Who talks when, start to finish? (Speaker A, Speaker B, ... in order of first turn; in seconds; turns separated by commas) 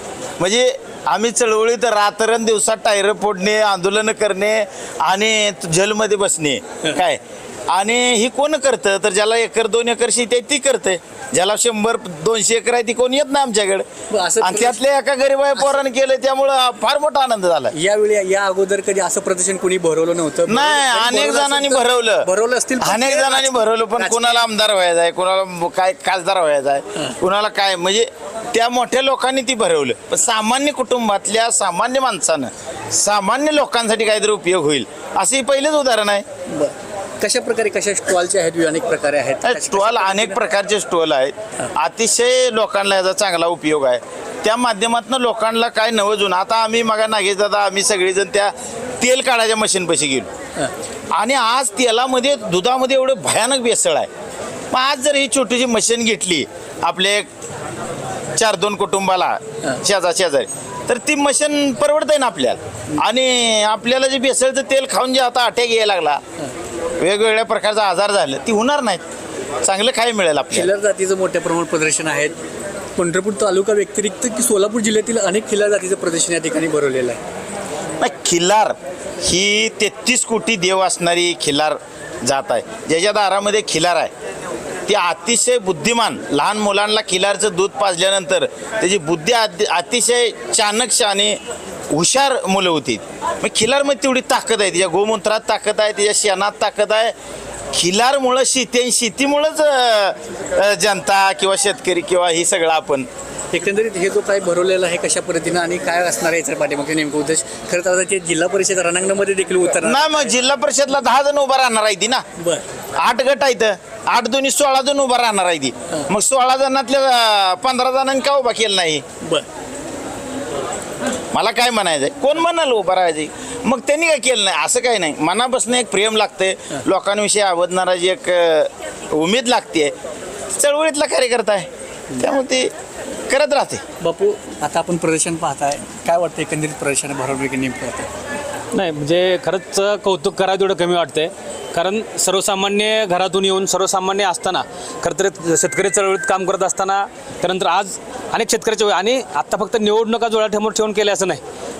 Speaker A: 0.4-13.8, Speaker B: 14.1-14.8, Speaker A: 14.4-17.7, Speaker B: 17.7-24.4, Speaker A: 20.5-22.3, Speaker A: 22.8-36.2, Speaker B: 36.5-40.5, Speaker A: 39.4-50.3, Speaker A: 51.1-54.1, Speaker A: 54.7-57.3, Speaker A: 58.4-66.2, Speaker A: 67.0-69.0, Speaker A: 69.6-70.7, Speaker B: 70.5-72.4, Speaker B: 73.0-77.2, Speaker A: 78.0-84.1, Speaker A: 84.9-91.4, Speaker A: 91.9-97.1, Speaker A: 97.7-103.1, Speaker B: 103.5-110.3, Speaker A: 109.8-112.2, Speaker B: 112.4-112.6, Speaker A: 113.0-119.0, Speaker A: 121.3-129.9, Speaker A: 130.5-132.7, Speaker A: 133.3-133.8, Speaker B: 134.0-138.1, Speaker C: 138.7-151.4